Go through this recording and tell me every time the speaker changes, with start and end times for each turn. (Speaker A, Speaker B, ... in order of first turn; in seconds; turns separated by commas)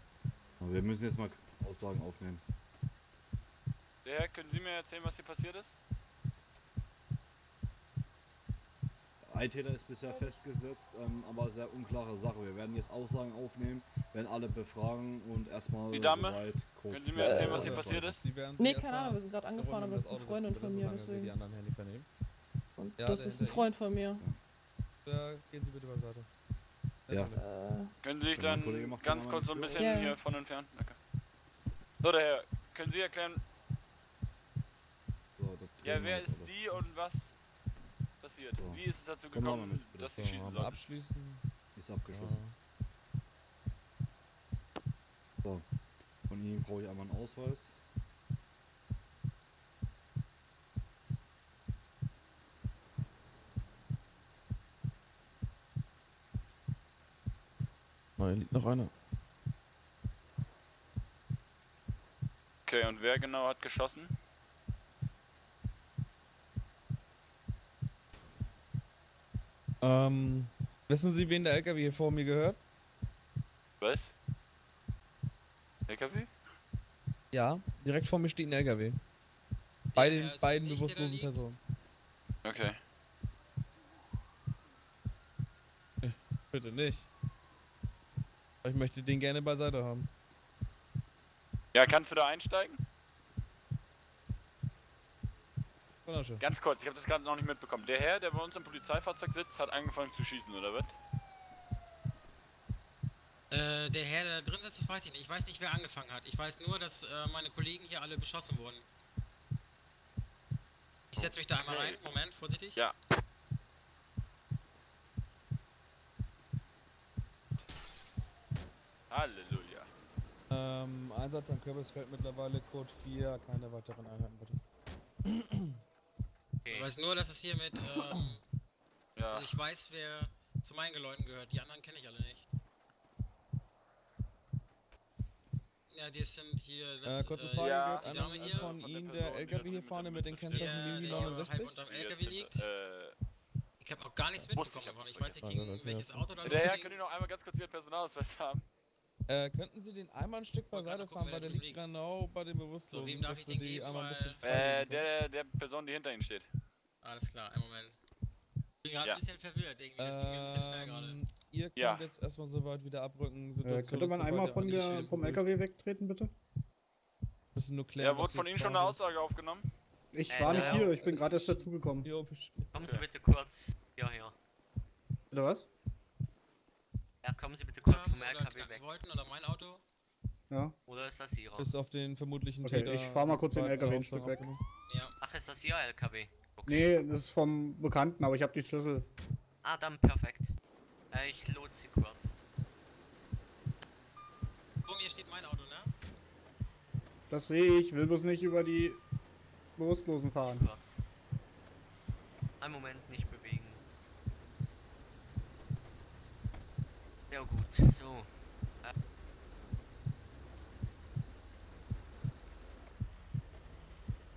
Speaker A: 0.6-2.4, Speaker B: 4.0-5.7, Speaker A: 9.3-18.2, Speaker B: 15.9-16.4, Speaker B: 16.9-17.9, Speaker C: 17.2-17.5, Speaker D: 17.5-22.1, Speaker C: 18.6-21.3, Speaker C: 22.8-24.2, Speaker D: 22.9-23.7, Speaker D: 25.0-26.3, Speaker D: 27.1-27.4, Speaker C: 27.4-27.9, Speaker B: 28.0-31.0, Speaker A: 28.3-29.9, Speaker C: 29.6-30.1, Speaker B: 32.0-33.4, Speaker A: 35.4-36.6, Speaker B: 35.8-37.3, Speaker B: 38.2-40.7, Speaker A: 38.6-40.2, Speaker D: 40.1-41.4, Speaker A: 41.8-42.4, Speaker D: 42.1-42.5, Speaker A: 46.3-47.8, Speaker D: 58.2-58.9, Speaker B: 62.7-64.1, Speaker D: 69.8-72.6, Speaker B: 73.8-74.1, Speaker B: 75.9-76.3, Speaker D: 77.3-79.0, Speaker E: 79.9-81.4, Speaker D: 80.0-81.6, Speaker B: 82.4-82.8, Speaker D: 86.0-87.1, Speaker D: 88.6-90.1, Speaker B: 91.7-92.8, Speaker D: 96.0-96.4, Speaker B: 96.4-100.9, Speaker E: 103.5-108.8, Speaker E: 111.1-112.8, Speaker B: 111.2-112.0, Speaker B: 119.1-119.9, Speaker D: 120.5-124.6, Speaker D: 125.3-125.5, Speaker F: 126.7-126.9, Speaker E: 126.7-128.4, Speaker D: 127.9-128.2, Speaker B: 129.2-129.4, Speaker E: 129.3-132.4, Speaker E: 135.9-138.7, Speaker D: 137.0-141.8, Speaker B: 137.6-138.0, Speaker B: 138.5-139.3, Speaker B: 139.9-140.9, Speaker E: 140.5-142.7, Speaker B: 141.9-143.1, Speaker E: 143.8-146.9, Speaker B: 144.5-145.3, Speaker D: 145.4-146.4, Speaker B: 146.4-148.6, Speaker D: 149.3-155.1, Speaker E: 150.7-151.8, Speaker E: 152.9-154.4, Speaker B: 154.4-156.4, Speaker E: 157.0-157.9, Speaker E: 158.8-161.2, Speaker D: 160.0-165.6, Speaker G: 163.6-166.3, Speaker D: 167.5-169.0, Speaker B: 168.0-169.6, Speaker G: 170.1-172.1, Speaker F: 170.3-171.4, Speaker D: 170.4-172.7, Speaker F: 172.7-174.3, Speaker G: 175.3-175.7, Speaker F: 177.2-178.8, Speaker E: 177.8-179.8, Speaker G: 180.5-180.8, Speaker F: 180.8-181.7, Speaker D: 181.6-184.6, Speaker G: 182.6-184.5, Speaker E: 184.9-185.1, Speaker F: 185.2-187.0, Speaker G: 186.6-189.1, Speaker F: 189.6-190.5, Speaker F: 191.1-192.3, Speaker E: 194.8-195.9, Speaker G: 197.3-199.0, Speaker G: 199.8-200.7, Speaker F: 200.4-201.0, Speaker F: 202.6-203.8, Speaker F: 207.3-208.3